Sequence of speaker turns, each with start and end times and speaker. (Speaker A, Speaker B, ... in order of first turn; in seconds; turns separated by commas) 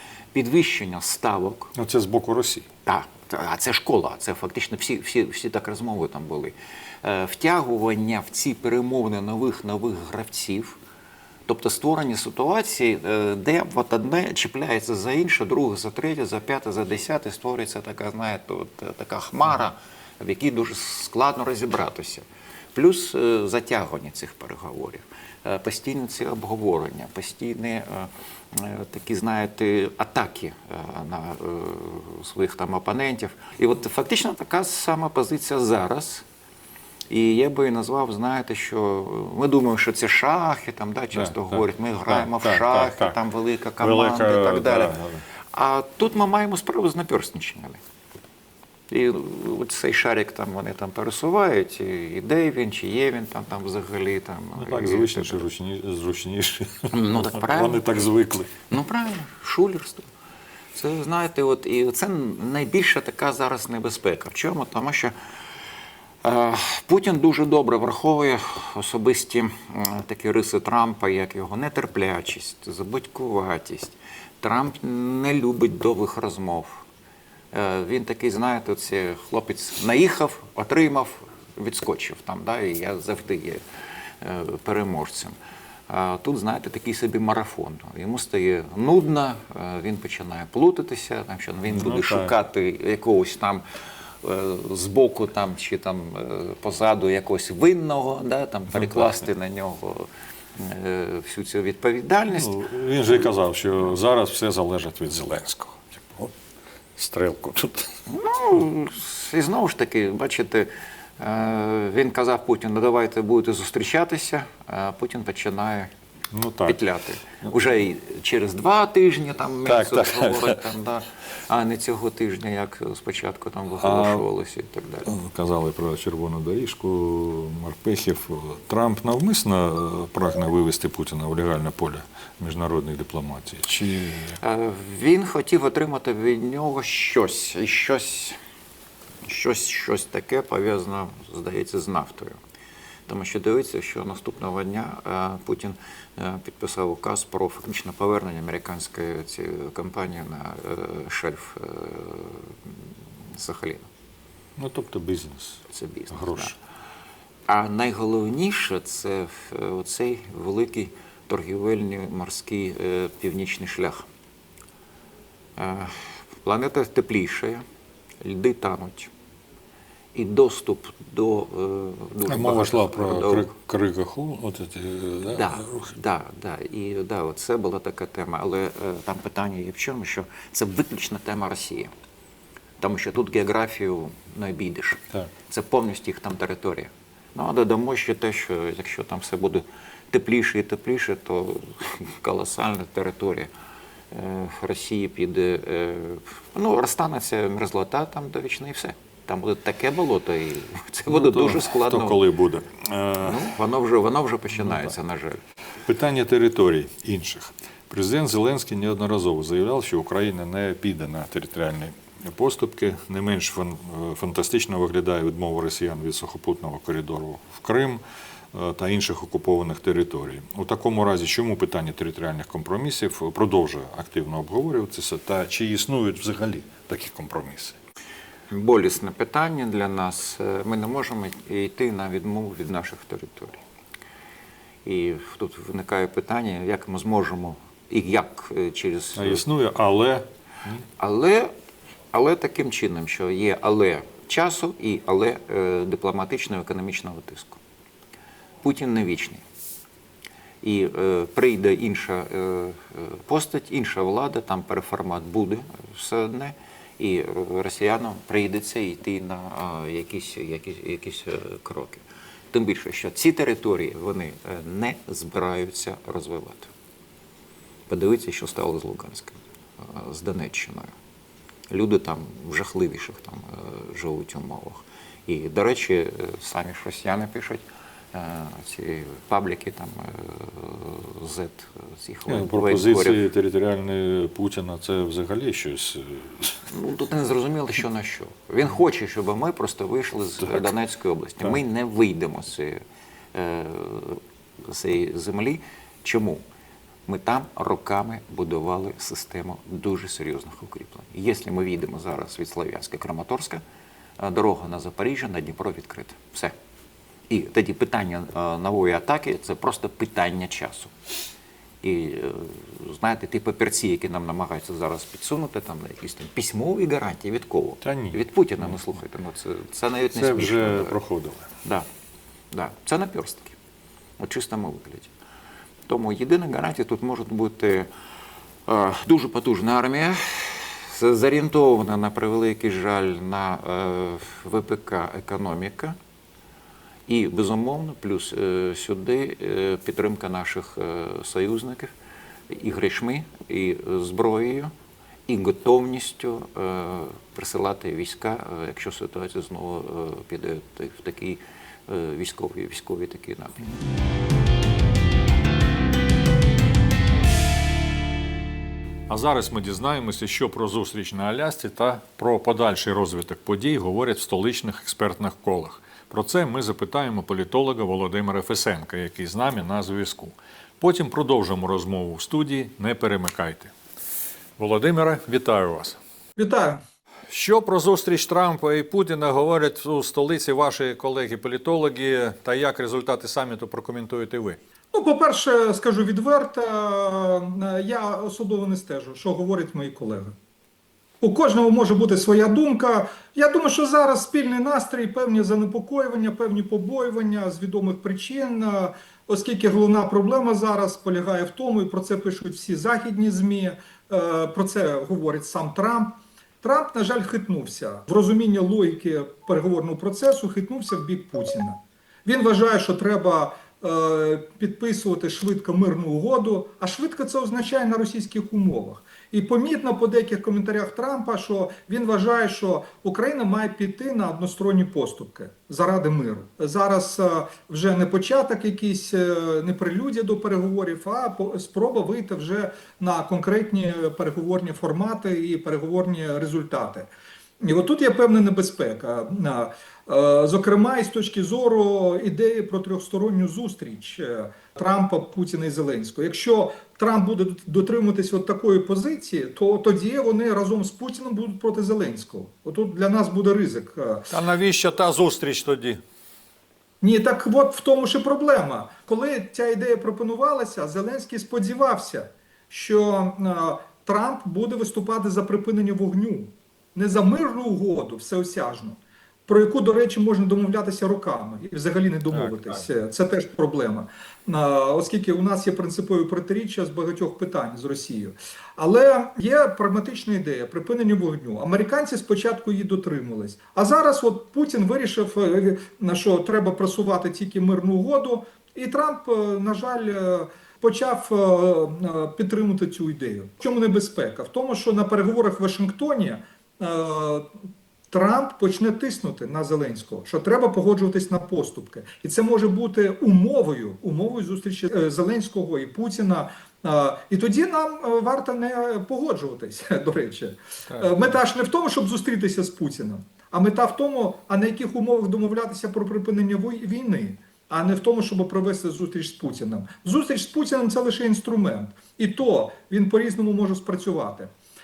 Speaker A: 0.3-1.7, Speaker B: 1.7-2.6, Speaker A: 2.9-10.8, Speaker A: 11.5-22.2, Speaker A: 22.7-36.2, Speaker A: 37.1-45.0, Speaker B: 41.1-43.2, Speaker B: 43.8-45.2, Speaker A: 45.5-47.8, Speaker A: 48.9-55.4, Speaker B: 54.6-58.5, Speaker A: 56.9-57.8, Speaker A: 58.7-60.1, Speaker A: 60.7-65.1, Speaker A: 66.2-76.8, Speaker A: 77.5-83.6, Speaker A: 84.2-85.3, Speaker A: 85.9-93.6, Speaker B: 91.7-92.3, Speaker A: 94.2-102.6, Speaker B: 98.7-99.1, Speaker B: 102.3-106.3, Speaker B: 107.0-108.0, Speaker A: 108.1-115.9, Speaker B: 116.3-116.8, Speaker A: 116.7-125.1, Speaker B: 119.6-120.6, Speaker B: 123.8-124.2, Speaker B: 125.0-134.4, Speaker A: 134.4-138.4, Speaker A: 139.2-142.4, Speaker A: 143.1-152.7, Speaker A: 153.3-153.9, Speaker B: 154.6-156.6, Speaker A: 155.7-156.5, Speaker A: 157.5-164.1, Speaker A: 165.6-167.6, Speaker A: 168.2-169.1, Speaker A: 170.1-173.5, Speaker B: 172.3-175.9, Speaker A: 175.3-181.9, Speaker A: 182.8-193.5, Speaker A: 194.1-202.2, Speaker B: 201.1-203.5, Speaker A: 203.2-205.4, Speaker B: 204.5-204.9, Speaker B: 205.8-218.0, Speaker B: 218.5-227.8, Speaker A: 228.5-233.6, Speaker A: 234.8-239.4, Speaker B: 239.2-240.8, Speaker A: 241.0-241.5, Speaker A: 242.1-247.6, Speaker A: 248.6-249.4, Speaker A: 250.6-266.7, Speaker A: 267.9-270.9, Speaker A: 271.7-283.2, Speaker B: 282.3-286.6, Speaker A: 286.7-292.8, Speaker B: 290.4-290.7, Speaker A: 293.3-296.4, Speaker A: 297.1-303.6, Speaker A: 304.2-306.5, Speaker A: 307.3-310.9, Speaker A: 311.8-320.9, Speaker B: 317.8-318.2, Speaker B: 320.1-321.5, Speaker A: 322.5-323.6, Speaker A: 324.2-325.1, Speaker A: 325.9-327.9, Speaker A: 328.7-336.0, Speaker A: 337.1-341.9, Speaker A: 342.5-344.7, Speaker A: 345.3-353.7, Speaker B: 359.1-373.7, Speaker B: 374.6-376.0, Speaker C: 376.4-376.8, Speaker B: 377.3-384.6, Speaker C: 384.9-390.3, Speaker C: 391.2-437.1, Speaker C: 437.6-454.3, Speaker B: 454.3-456.0, Speaker C: 457.0-497.5, Speaker C: 498.1-524.5, Speaker B: 510.9-511.3